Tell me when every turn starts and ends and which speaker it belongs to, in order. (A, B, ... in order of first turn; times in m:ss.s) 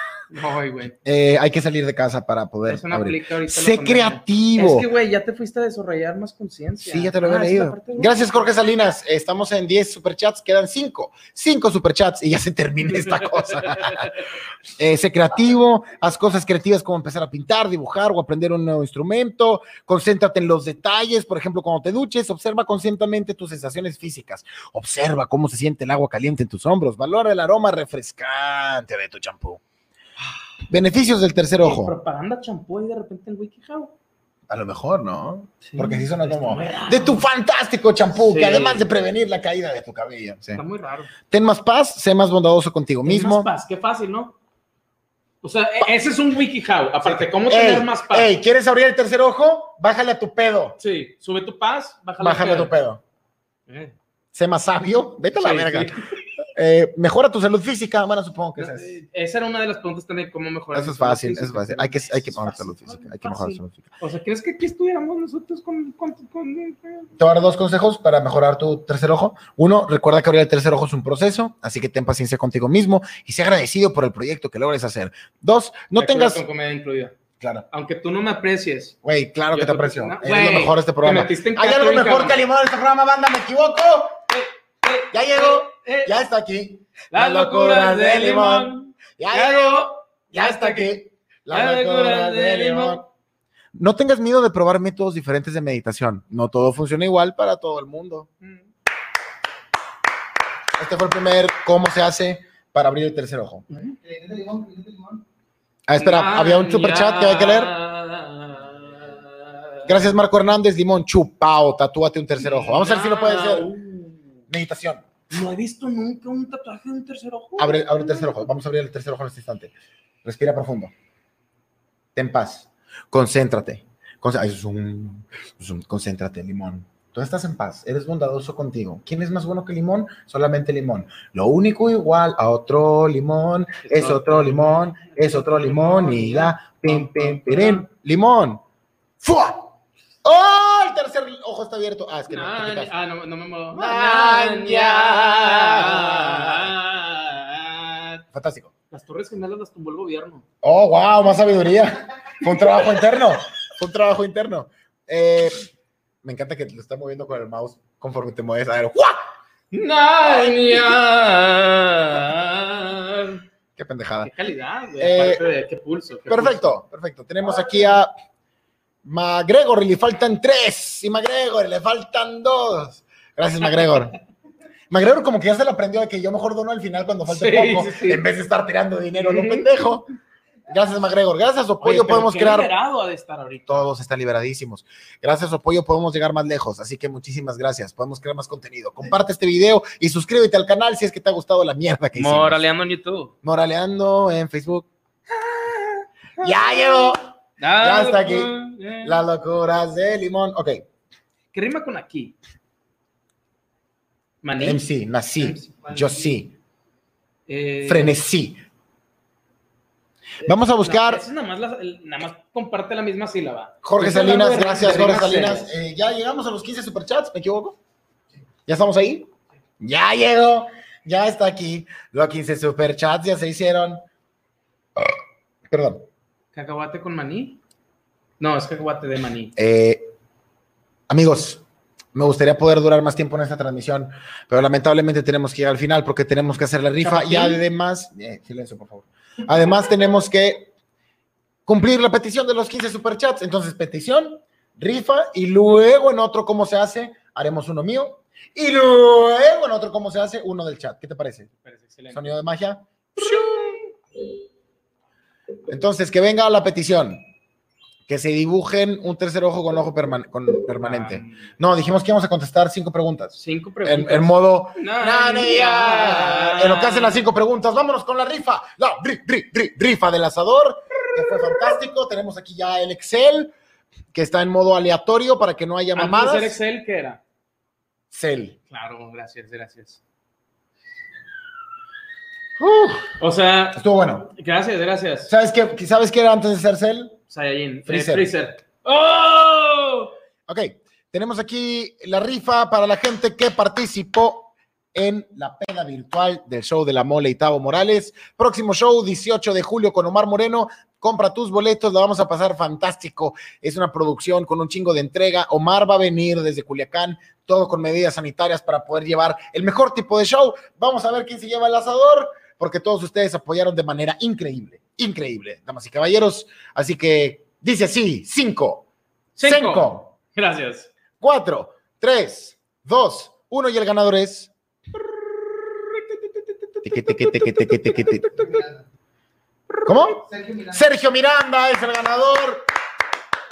0:00.3-0:00.9 A
0:01.0-0:04.9 B
0:02.7-0:08.5 A
0:06.8-0:14.1 B
0:13.1-0:14.1 A
0:14.8-0:29.6 B
0:30.7-0:31.9 B
0:31.6-0:33.9 A
0:34.5-0:40.6 B
0:35.6-0:37.2 A
0:38.2-0:38.9 A
0:40.6-0:41.1 A
0:41.3-0:43.5 B
0:43.0-0:44.3 A
0:45.4-0:48.3 A
0:47.0-0:50.8 B
0:50.8-0:52.7 A
0:52.2-0:53.0 B
0:53.7-0:53.9 A
0:54.3-0:55.9 B
0:55.3-0:56.1 A
0:56.5-0:59.0 B
0:58.6-1:07.1 A
1:00.7-1:03.9 B
1:07.2-1:16.4 B
1:16.0-1:17.1 A
1:17.4-1:17.6 B
1:17.7-1:18.9 A
1:19.0-1:24.2 B
1:19.5-1:22.4 A
1:24.3-1:26.2 A
1:25.1-1:33.1 B
1:27.1-1:30.9 A
1:31.5-1:33.0 A
1:33.7-1:38.3 B
1:38.4-1:38.7 A
1:40.8-1:43.7 B
1:43.7-1:43.9 A
1:43.9-1:45.2 C
1:45.9-1:47.7 B
1:46.0-1:50.1 A
1:49.8-1:53.7 B
1:52.4-1:54.3 A
1:54.5-1:55.0 B
1:55.3-1:58.3 A
1:57.6-1:59.7 B
2:00.2-2:00.9 B
2:02.1-2:18.6 B
2:13.8-2:17.8 A
2:19.2-2:19.7 B
2:20.2-2:22.9 B
2:22.3-2:28.2 A
2:23.7-2:26.7 B
2:28.3-2:28.7 B
2:28.9-2:30.4 A
2:30.6-2:35.7 B
2:32.6-2:33.0 A
2:36.2-2:39.2 B
2:39.7-2:43.4 A
2:43.8-2:44.3 B
2:44.2-2:46.8 A
2:45.0-2:45.4 B
2:46.3-2:48.1 B
2:49.0-2:54.1 B
2:54.9-3:00.1 B
2:57.3-2:58.2 A
2:59.2-2:59.7 A
3:00.7-3:02.7 B
3:01.8-3:03.9 A
3:03.7-3:12.6 B
3:12.1-3:13.3 A
3:13.4-3:14.9 B
3:15.3-3:19.2 A
3:16.4-3:20.8 B
3:21.5-3:22.3 A
3:24.4-3:24.8 A
3:24.6-3:26.5 B
3:25.4-3:25.8 A
3:27.5-3:28.2 A
3:27.8-3:28.6 B
3:30.4-3:31.2 B
3:30.4-3:35.8 A
3:33.8-3:37.8 B
3:38.6-3:44.0 B
3:45.7-3:46.0 B
3:46.5-3:47.6 A
3:48.4-3:49.5 A
3:49.6-3:50.1 B
3:51.1-3:51.6 B
3:52.1-4:00.7 B
3:57.0-3:57.6 A
4:01.7-4:11.5 B
4:11.6-4:12.4 A
4:12.1-4:13.9 B
4:15.7-4:17.2 B
4:18.1-4:33.5 B
4:20.8-4:21.5 A
4:23.3-4:27.2 A
4:34.1-4:36.6 B
4:35.9-4:37.2 A
4:38.1-4:38.6 B
4:38.7-4:40.0 A
4:42.6-4:43.1 B
4:43.2-4:45.3 A
4:43.8-4:44.3 B
4:45.3-4:47.2 B
4:47.3-4:50.1 A
4:47.9-4:48.3 B
4:50.5-5:18.8 B
5:19.4-5:20.9 A
5:19.4-5:20.1 B
5:21.2-5:24.5 B
5:26.1-5:28.5 A
5:26.8-5:28.3 B
5:28.3-5:28.8 C
5:29.8-5:32.6 B
5:30.2-5:30.9 C